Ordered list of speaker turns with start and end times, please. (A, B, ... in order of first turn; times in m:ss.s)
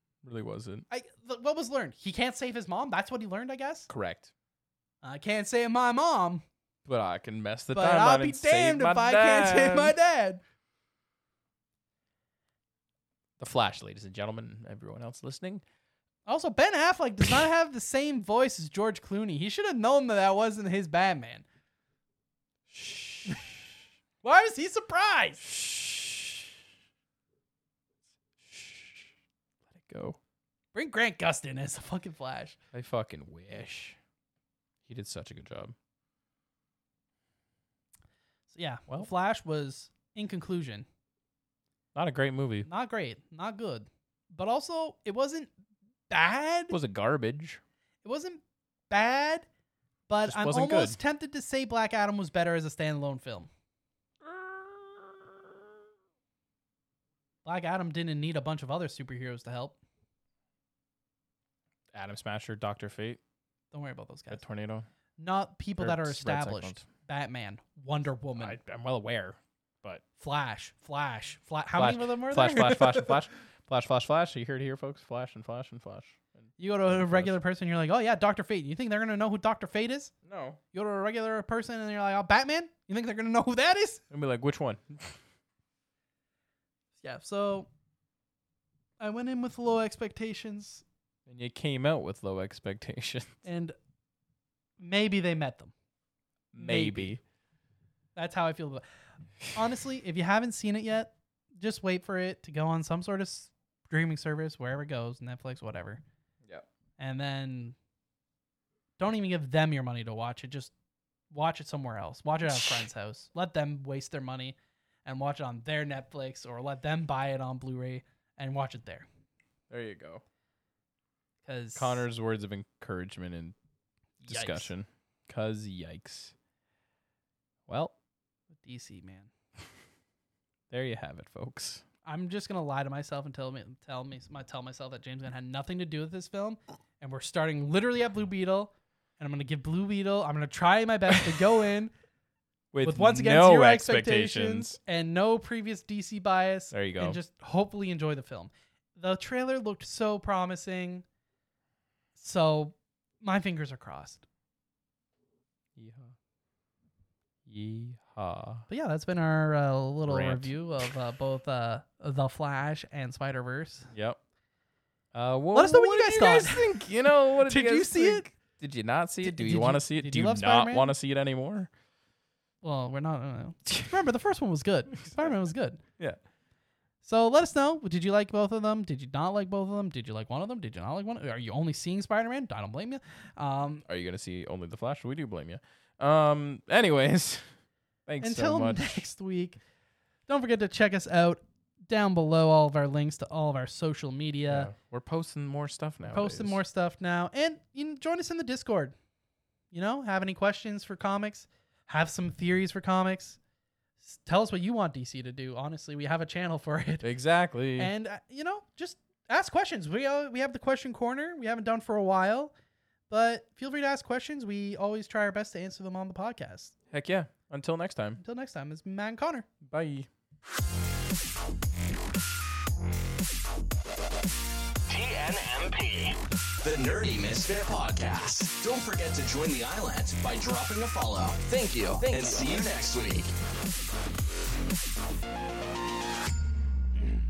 0:00.2-0:00.8 A
0:00.9-0:03.9 B
0:03.9-0:04.3 A
0:05.0-0:06.4 B
0:06.8-0:10.0 A
0:07.7-0:10.4 B
0:13.4-0:15.6 A
0:16.3-0:21.4 B
0:22.7-0:23.7 A
0:24.2-0:25.4 B
0:25.4-0:26.6 A
0:28.4-0:29.1 A
0:29.7-0:30.2 A
0:30.7-0:32.6 B
0:32.7-0:34.0 A
0:34.8-0:35.7 A
0:38.5-0:40.8 B
0:41.9-0:42.7 A
0:42.6-0:45.5 B
0:46.1-0:46.7 B
0:46.7-0:47.6 A
0:48.0-0:49.4 B
0:50.1-0:53.5 B
0:50.2-0:51.0 A
0:54.3-0:55.0 A
0:57.4-0:59.8 B
1:01.9-1:03.2 A
1:03.7-1:04.4 B
1:04.3-1:04.9 A
1:05.2-1:08.6 B
1:05.8-1:06.8 A
1:08.4-1:10.0 A
1:10.2-1:13.2 B
1:11.8-1:17.3 A
1:16.6-1:20.1 B
1:20.2-1:20.6 A
1:20.7-1:24.0 B
1:24.1-1:25.2 A
1:27.0-1:27.7 B
1:29.0-1:30.8 B
1:31.2-1:33.4 A
1:33.4-1:33.7 B
1:34.8-1:35.7 B
1:36.5-1:37.2 A
1:36.6-1:37.2 B
1:38.2-1:38.8 B
1:39.5-1:46.0 B
1:47.0-1:47.8 B
1:49.0-1:50.7 B
1:51.3-1:59.1 B
1:59.7-2:00.2 A
2:01.4-2:02.0 B
2:01.7-2:03.5 A
2:04.2-2:06.3 A
2:04.3-2:04.7 B
2:07.7-2:07.9 A
2:08.6-2:09.3 B
2:10.7-2:11.8 A
2:12.0-2:21.9 B
2:22.7-2:24.8 A
2:22.8-2:31.0 B
2:26.7-2:27.2 A
2:32.2-2:34.2 B
2:35.8-2:36.1 A
2:37.4-2:38.6 A
2:38.7-2:43.9 B
2:40.0-2:40.5 A
2:43.9-2:44.2 A
2:45.1-2:51.7 A
2:45.5-2:48.3 B
2:49.2-2:50.9 B
2:52.6-2:55.8 B
2:57.0-3:03.8 B
3:03.8-3:07.5 A
3:08.0-3:09.0 A
3:08.2-3:09.6 B
3:10.3-3:14.7 B
3:14.5-3:16.6 A
3:16.1-3:18.9 B
3:19.7-3:23.4 B
3:24.0-3:27.1 B
3:27.0-3:27.9 A
3:27.8-3:32.5 B
3:33.1-3:36.7 B
3:36.9-3:38.2 A
3:38.2-3:39.5 B
3:39.6-3:40.1 A
3:44.9-3:53.3 C